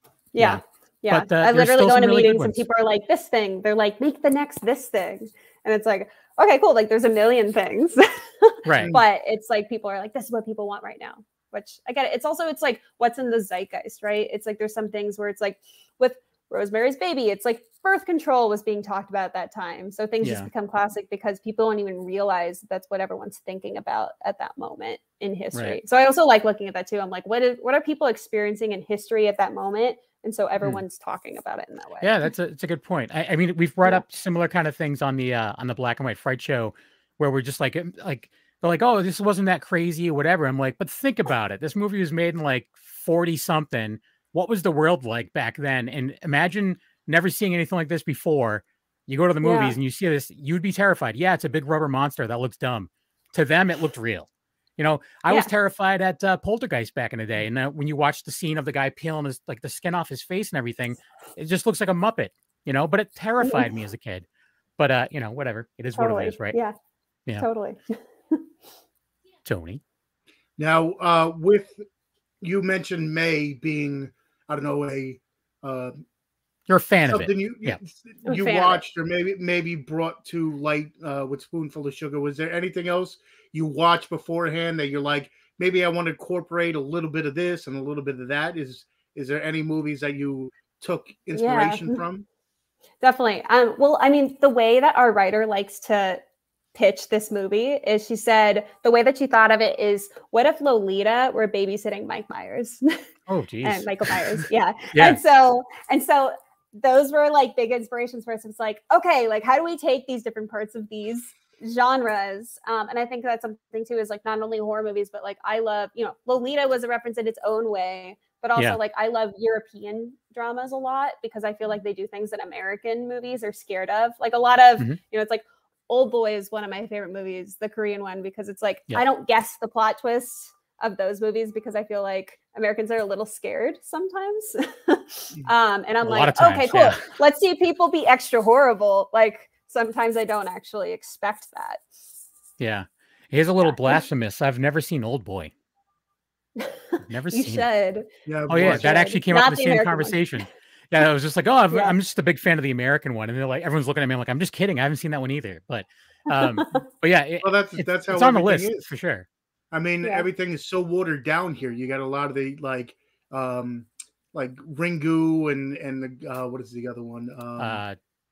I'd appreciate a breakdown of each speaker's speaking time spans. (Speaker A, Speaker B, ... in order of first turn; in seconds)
Speaker A: 0.3-32.3, 49.4-49.8, 63.4-63.7, 66.0-66.8, 67.4-68.4, 78.3-78.8, 91.3-92.0, 93.0-96.2, 96.7-103.0, 103.6-141.8, 143.6-144.0, 146.6-150.2, 156.4-156.8
Speaker B: 0.4-2.6, 8.7-8.9, 20.2-20.5, 25.5-25.8, 32.0-64.3, 64.8-66.6, 69.5-69.8, 76.7-77.8, 103.3-104.4, 104.9-105.2, 136.0-137.1, 142.6-145.5, 147.1-147.7, 148.5-159.3, 167.6-168.0
Speaker C: 8.8-9.0, 70.6-71.8, 72.4-76.0, 77.1-92.3, 148.3-148.9, 157.4-158.9, 159.7-167.8